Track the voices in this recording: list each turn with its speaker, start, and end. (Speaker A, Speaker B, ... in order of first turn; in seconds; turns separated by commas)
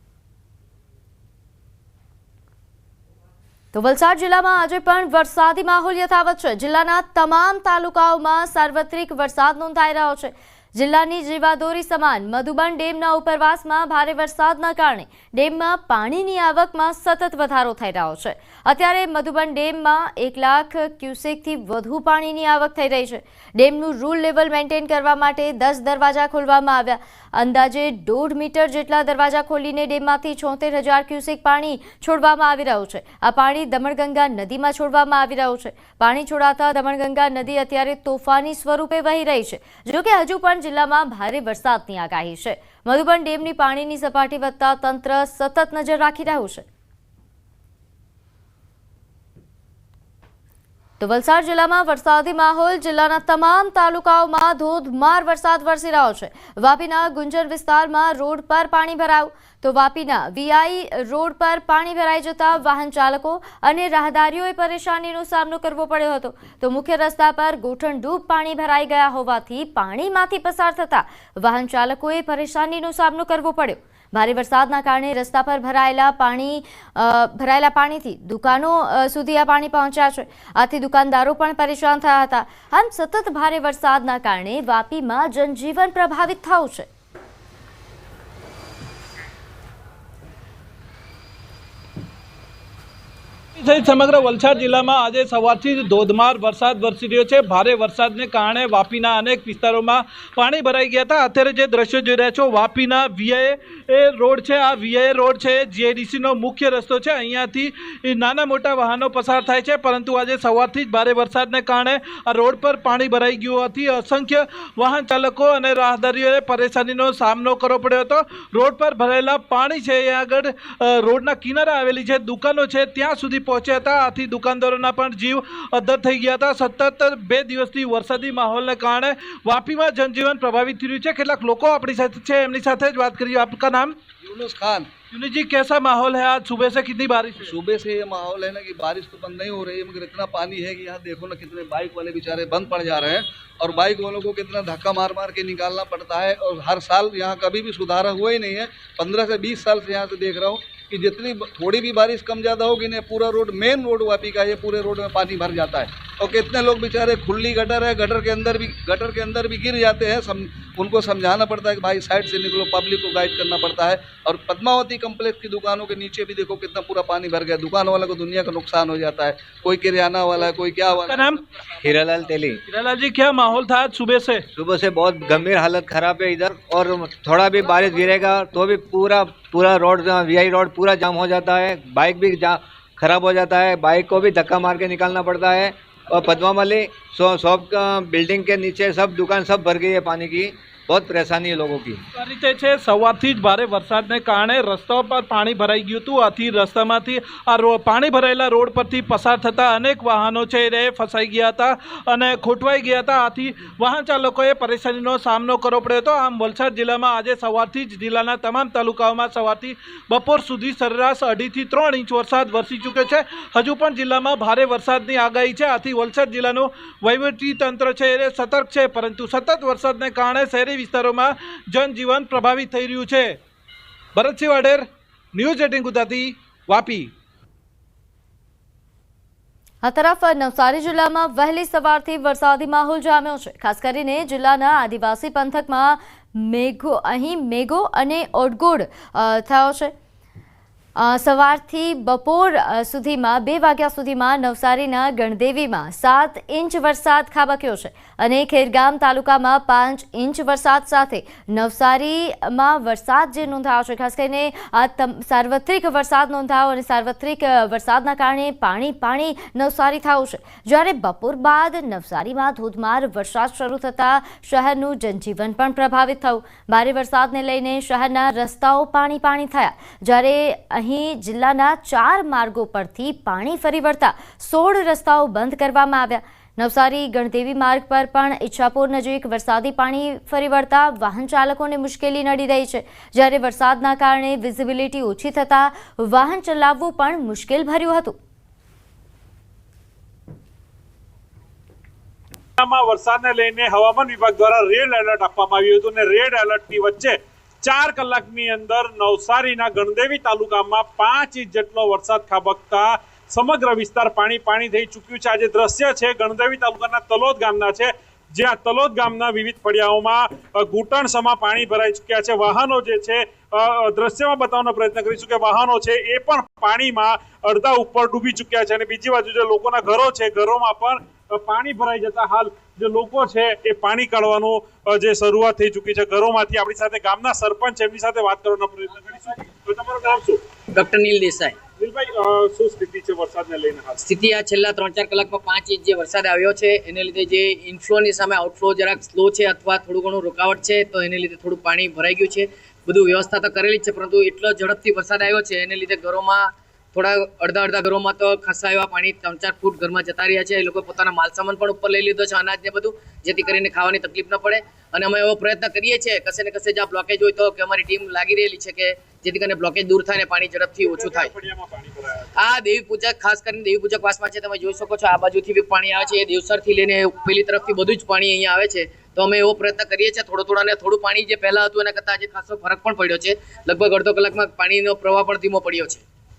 Speaker A: 3.7-46.7, Speaker A: 51.0-86.9, Speaker B: 93.5-134.0, Speaker C: 134.2-134.9, Speaker B: 135.1-137.5, Speaker C: 137.4-171.3, Speaker B: 171.1-171.4, Speaker D: 171.8-172.6, Speaker B: 172.7-174.4, Speaker D: 174.6-192.0, Speaker B: 192.2-223.4, Speaker B: 224.2-227.1, Speaker A: 229.8-239.9, Speaker A: 241.0-288.2, Speaker E: 292.6-330.4, Speaker F: 330.8-331.6, Speaker E: 331.8-334.0, Speaker F: 334.1-361.3, Speaker E: 360.8-362.3, Speaker F: 362.4-376.0